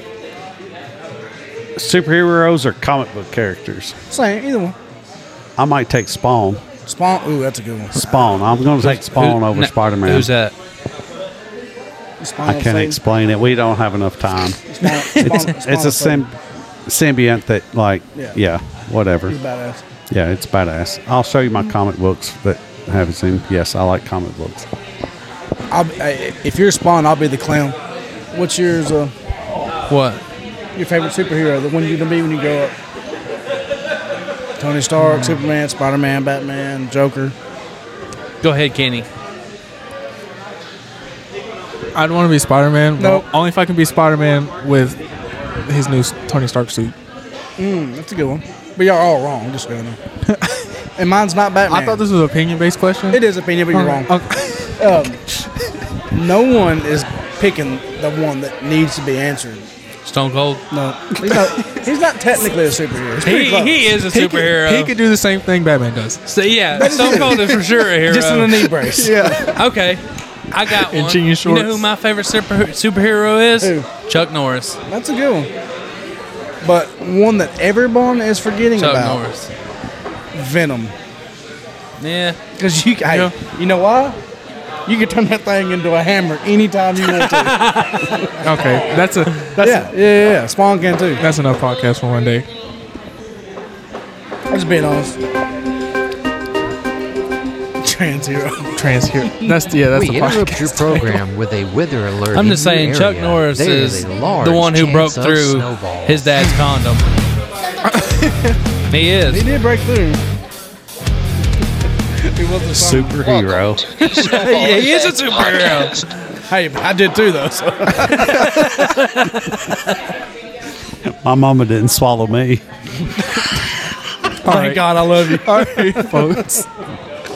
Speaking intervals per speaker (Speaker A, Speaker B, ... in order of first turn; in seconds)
Speaker A: 1.8-4.0, 5.6-6.7, 8.0-10.3, 12.4-14.7, 15.2-19.4, 20.1-24.7, 112.7-113.8, 121.0-122.7
Speaker B: 4.1-4.8, 6.9-8.7, 12.2-13.0, 14.7-16.2, 19.3-19.8, 25.7-27.8, 28.3-29.1, 30.8-32.7, 34.6-37.4, 43.0-43.2, 47.6-50.0, 51.0-52.0, 53.1-54.1, 54.8-55.2, 56.1-59.7, 60.7-64.0, 66.8-69.5, 73.6-73.9, 74.9-75.5, 76.6-79.2, 80.3-81.0, 82.5-84.2, 84.9-88.8, 89.6-91.2, 94.5-95.2, 97.8-98.7, 99.2-99.6, 109.3-110.2, 112.2-113.2, 114.2-115.0, 116.5-118.9, 124.5-126.4
Speaker C: 8.8-10.5, 14.8-15.4, 29.9-30.2, 38.4-39.1, 60.0-60.6, 63.2-64.9, 66.3-68.7, 69.5-74.8, 78.8-79.5, 82.0-82.4, 87.1-88.2, 102.3-107.1, 108.9-109.4, 114.0-116.0, 118.1-120.0
Speaker D: 42.0-45.0, 45.7-46.9, 50.3-50.7, 51.7-54.7, 61.2-61.9, 64.1-66.2, 66.8-67.6, 68.8-69.6, 70.8-71.9, 88.4-89.9, 91.2-92.5, 98.8-101.2, 107.9-108.6, 124.4-126.7
Speaker E: 99.9-106.3, 113.2-116.1